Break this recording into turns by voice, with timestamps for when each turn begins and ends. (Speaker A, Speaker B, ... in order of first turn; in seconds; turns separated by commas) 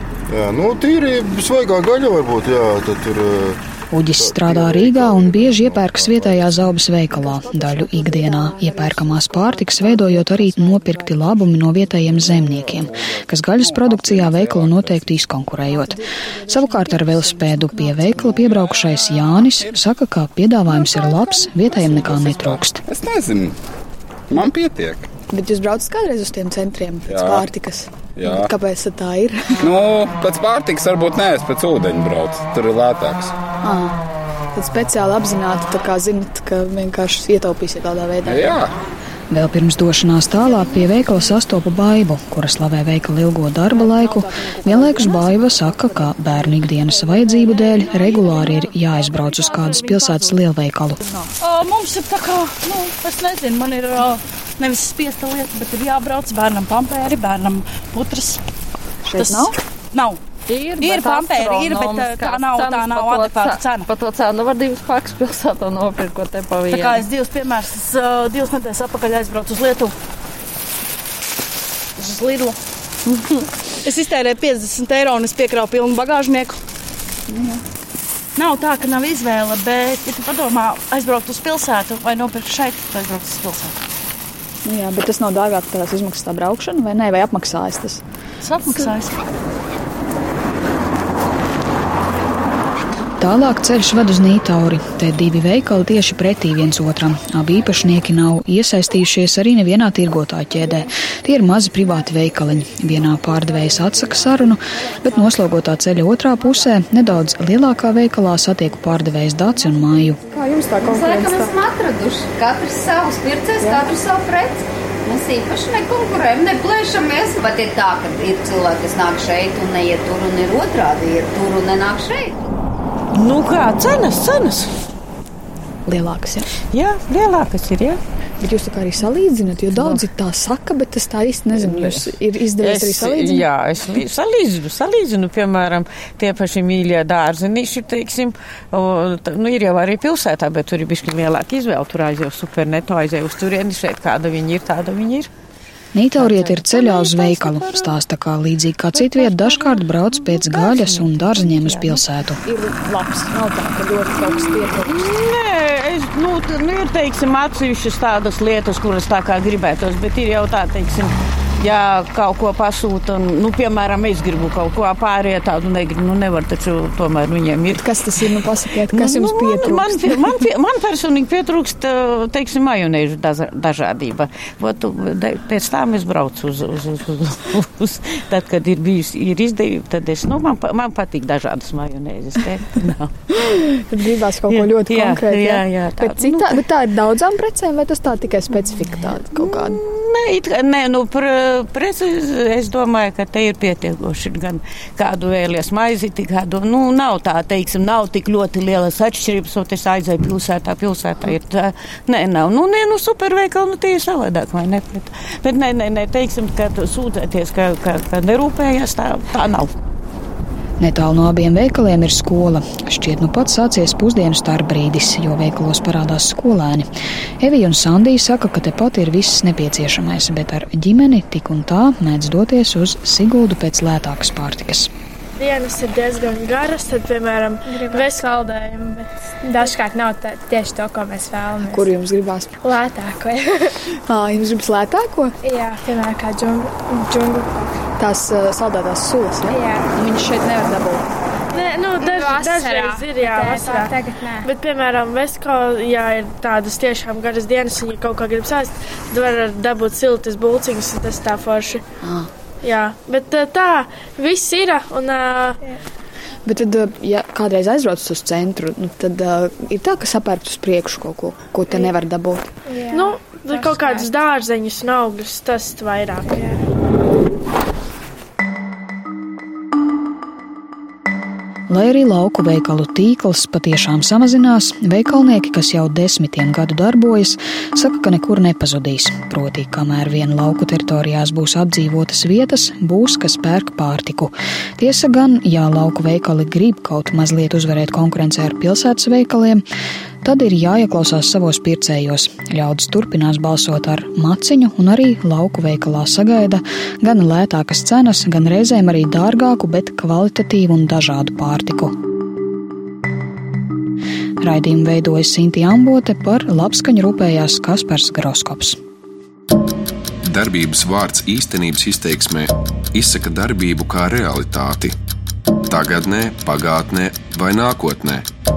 Speaker A: 0.3-3.6, Speaker B: 3.9-16.0, Speaker A: 4.2-6.6, Speaker C: 7.1-11.5, Speaker D: 12.3-15.1, Speaker C: 15.7-18.5, Speaker B: 16.5-22.8, Speaker C: 20.8-22.1, Speaker D: 22.9-23.5, Speaker D: 24.3-25.1, Speaker C: 25.3-29.7, Speaker D: 27.1-27.5, Speaker D: 28.1-28.5, Speaker D: 29.6-33.3, Speaker C: 33.6-34.0, Speaker C: 34.5-38.6, Speaker D: 38.2-38.7, Speaker B: 39.3-51.0, Speaker C: 44.7-45.1, Speaker E: 51.4-58.4, Speaker F: 55.0-55.3, Speaker C: 59.0-59.5, Speaker G: 60.5-67.0, Speaker E: 60.8-63.9, Speaker F: 60.8-63.8, Speaker E: 66.7-69.9, Speaker F: 66.7-67.9, Speaker E: 72.0-72.5, Speaker E: 73.8-76.5, Speaker C: 77.3-77.6, Speaker E: 78.4-83.7, Speaker C: 84.6-88.0, Speaker E: 88.4-89.1, Speaker B: 93.2-110.2, Speaker C: 110.3-111.7, Speaker H: 110.8-122.3, Speaker C: 113.5-113.9, Speaker I: 123.1-124.7, Speaker C: 125.9-126.5, Speaker I: 126.7-128.0, Speaker C: 128.4-133.5, Speaker I: 129.7-130.0, Speaker I: 131.5-145.3, Speaker B: 145.9-152.4, Speaker I: 146.2-147.8, Speaker I: 150.4-152.0, Speaker C: 152.4-154.9, Speaker I: 154.2-183.1, Speaker C: 167.7-170.2, Speaker C: 183.4-189.8, Speaker I: 184.5-186.6, Speaker I: 188.9-209.7, Speaker B: 210.8-216.9, Speaker B: 217.4-224.9, Speaker J: 225.4-229.1, Speaker F: 227.7-228.3, Speaker F: 229.4-231.9, Speaker C: 231.7-232.5, Speaker F: 232.6-233.5, Speaker C: 234.1-235.3, Speaker F: 235.4-237.7, Speaker C: 238.0-241.1, Speaker F: 239.5-239.9, Speaker F: 241.5-244.5, Speaker J: 241.5-251.8, Speaker J: 252.6-255.6, Speaker C: 256.4-262.5, Speaker F: 262.7-264.1, Speaker J: 262.9-266.6, Speaker B: 271.7-289.6, Speaker B: 290.2-301.9, Speaker B: 304.4-308.8, Speaker K: 310.2-314.9, Speaker K: 315.7-318.2